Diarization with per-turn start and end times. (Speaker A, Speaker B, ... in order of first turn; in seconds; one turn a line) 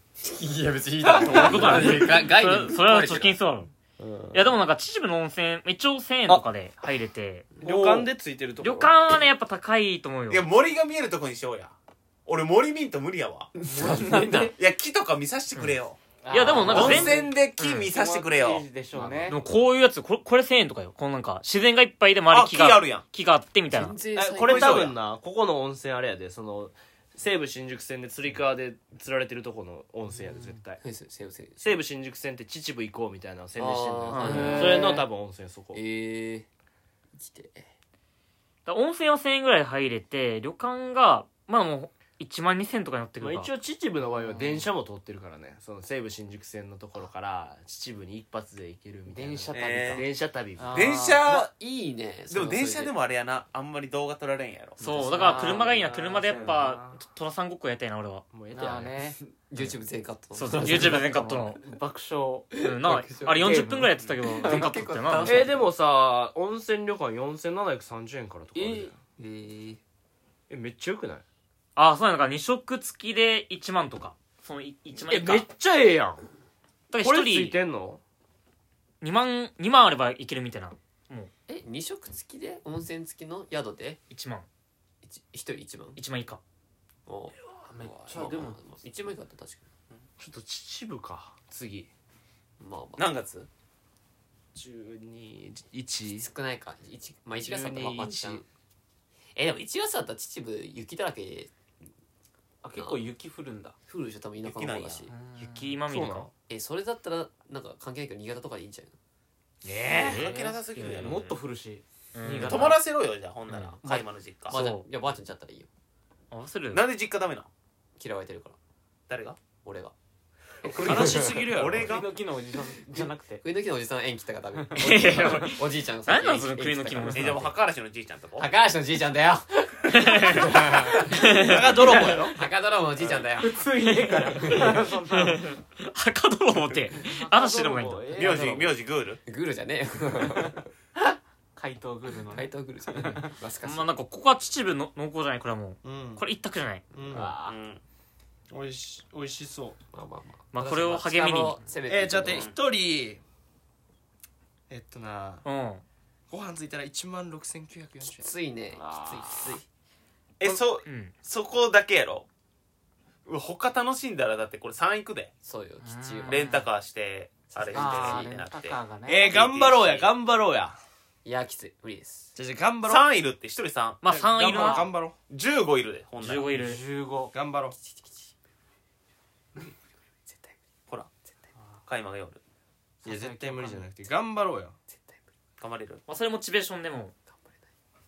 Speaker A: 0.2-3.4
Speaker B: 1.2-3.7
Speaker C: 4.0-4.5
Speaker B: 4.3-7.5
Speaker C: 7.6-8.9
Speaker D: 7.7-8.1
Speaker B: 8.6-10.5
Speaker E: 10.3-13.5
Speaker A: 13.6-14.5
Speaker D: 13.7-14.5
Speaker E: 14.6-16.0
Speaker D: 16.2-19.4
Speaker B: 16.3-17.9
Speaker A: 16.4-17.1
Speaker E: 16.7-18.7
Speaker A: 18.9-19.4
Speaker B: 19.3-23.9
Speaker E: 22.3-23.1
Speaker A: 23.7-24.9
Speaker C: 24.1-30.8
Speaker E: 24.4-24.9
Speaker A: 30.8-31.8
Speaker C: 31.6-35.8
Speaker A: 33.6-35.0
Speaker B: 34.1-34.8
Speaker D: 34.2-35.0
Speaker A: 35.7-36.5
Speaker A: 37.1-37.7
Speaker B: 38.6-43.5
Speaker C: 43.2-50.9
Speaker D: 44.2-44.6
Speaker D: 49.1-50.0
Speaker E: 49.5-50.0
Speaker D: 50.6-51.2
Speaker E: 50.7-51.5
Speaker A: 51.2-52.9
Speaker E: 52.3-54.8
Speaker A: 54.8-55.7
Speaker B: 54.8-58.3
Speaker D: 55.3-55.6
Speaker C: 55.6-57.0
Speaker D: 56.3-56.6
Speaker C: 58.3-58.9
Speaker D: 58.5-59.2
Speaker A: 59.5-61.6
Speaker B: 60.4-61.6
Speaker D: 61.6-62.6
Speaker A: 62.5-65.7
Speaker B: 62.6-65.5
Speaker D: 63.4-63.9
Speaker C: 65.2-69.0
Speaker D: 68.5-68.9
Speaker A: 69.2-69.8
Speaker C: 70.5-71.2
Speaker B: 71.8-75.5
Speaker C: 74.9-76.2
Speaker B: 76.9-77.6
Speaker C: 77.0-78.0
Speaker B: 79.0-81.3
Speaker A: 81.5-84.0
Speaker B: 84.1-84.5
Speaker A: 85.0-86.0
Speaker B: 86.0-86.4
Speaker A: 87.1-89.6
Speaker D: 87.6-88.6
Speaker C: 90.2-91.9
Speaker A: 92.6-93.1
Speaker E: 93.0-93.5
Speaker C: 94.5-96.3
Speaker A: 96.1-98.4
Speaker C: 97.4-98.4
Speaker A: 99.4-101.5
Speaker D: 102.6-103.8
Speaker A: 102.8-103.1
Speaker A: 103.9-105.1
Speaker E: 104.4-105.1
Speaker D: 105.1-105.8
Speaker B: 105.4-106.3
Speaker C: 105.9-106.3
Speaker A: 106.5-108.9
Speaker C: 109.6-110.3
Speaker B: 110.0-111.4
Speaker E: 110.0-111.4
Speaker D: 110.3-112.8
Speaker B: 112.1-112.8
Speaker E: 112.3-114.6
Speaker B: 113.5-113.8
Speaker A: 113.8-115.7
Speaker B: 114.5-114.8
Speaker B: 116.3-116.9
Speaker E: 116.7-117.5
Speaker A: 118.0-118.6
Speaker E: 119.1-119.4
Speaker A: 119.6-119.9
Speaker A: 120.6-121.5
Speaker C: 120.6-122.1
Speaker E: 121.5-122.1
Speaker D: 121.7-123.4
Speaker A: 123.4-127.5
Speaker B: 124.8-127.5
Speaker E: 127.1-128.5
Speaker A: 128.4-131.4
Speaker B: 129.9-131.7
Speaker C: 131.4-132.4
Speaker D: 132.0-132.2
Speaker A: 132.0-133.7
Speaker E: 133.0-133.3
Speaker D: 133.3-135.6
Speaker B: 133.9-138.7
Speaker D: 137.0-138.5
Speaker E: 138.1-139.2
Speaker A: 139.2-140.6
Speaker D: 140.2-143.4
Speaker A: 142.3-143.9
Speaker B: 143.6-146.8
Speaker C: 145.8-146.2
Speaker A: 146.9-147.6
Speaker C: 146.9-147.3
Speaker E: 147.5-147.8
Speaker C: 148.5-149.8
Speaker A: 149.9-152.5
Speaker B: 150.5-151.6
Speaker C: 151.9-153.2
Speaker E: 152.3-152.6
Speaker C: 154.7-155.4
Speaker B: 155.4-155.8
Speaker C: 156.3-158.3
Speaker A: 158.1-159.6
Speaker D: 158.8-159.6
Speaker E: 160.4-162.3
Speaker B: 160.8-161.1
Speaker E: 163.3-165.3
Speaker A: 165.4-166.6
Speaker D: 165.8-166.7
Speaker E: 166.3-168.8
Speaker A: 167.5-168.4
Speaker D: 167.7-170.1
Speaker C: 169.1-170.8
Speaker A: 171.2-172.3
Speaker C: 172.3-173.1
Speaker E: 172.8-176.5
Speaker B: 174.0-174.9
Speaker C: 174.1-175.1
Speaker B: 176.2-176.8
Speaker D: 176.4-177.3
Speaker C: 177.3-177.7
Speaker A: 177.7-178.3
Speaker A: 180.3-180.6
Speaker E: 181.9-182.4
Speaker D: 183.0-183.9
Speaker C: 183.1-184.8
Speaker A: 184.9-185.2
Speaker E: 185.6-186.0
Speaker B: 186.1-187.1